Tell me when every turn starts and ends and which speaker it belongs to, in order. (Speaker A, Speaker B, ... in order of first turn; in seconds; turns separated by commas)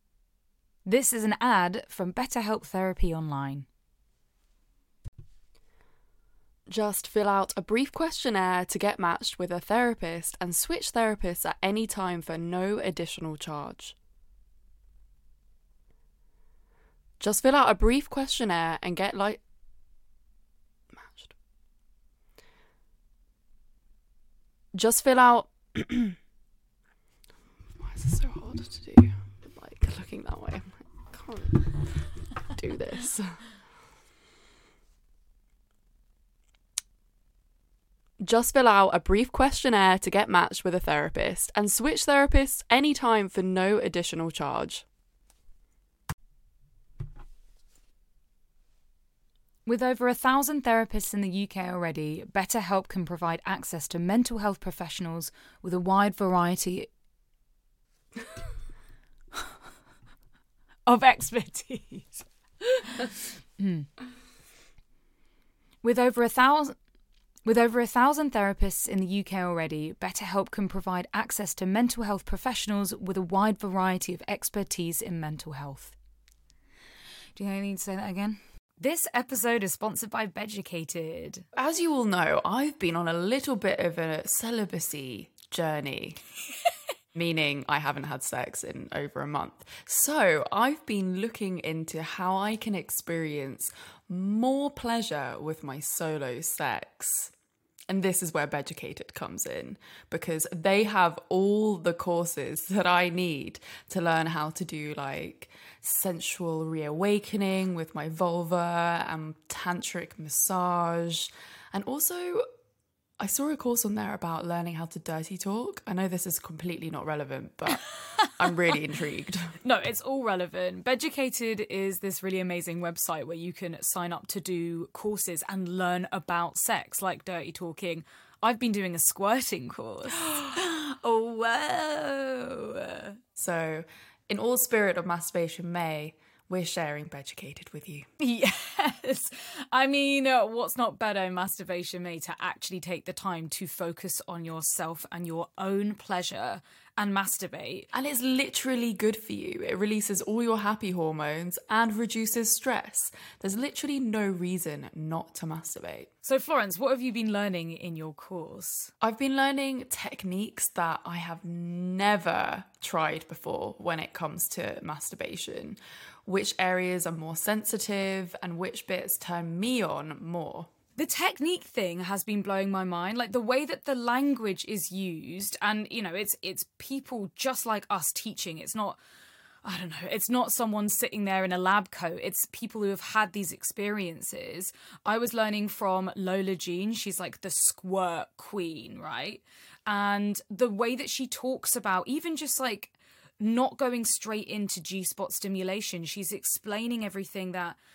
Speaker A: 0.8-3.6, Speaker B: 6.7-13.9, Speaker B: 17.2-19.4, Speaker B: 20.9-21.3, Speaker B: 24.7-26.1, Speaker B: 27.8-31.9, Speaker B: 32.5-33.4, Speaker B: 38.2-44.8, Speaker A: 49.6-56.9, Speaker A: 60.9-63.9, Speaker A: 65.8-66.8, Speaker A: 67.4-75.9, Speaker A: 77.3-81.4, Speaker B: 81.5-86.2, Speaker B: 87.1-97.3, Speaker B: 97.9-112.5, Speaker B: 113.2-119.5, Speaker A: 119.6-133.2, Speaker B: 130.3-130.6, Speaker B: 133.3-138.1, Speaker A: 138.2-147.9, Speaker B: 147.9-156.1, Speaker A: 156.2-158.9, Speaker B: 159.0-170.7, Speaker A: 171.0-179.0, Speaker A: 179.6-197.8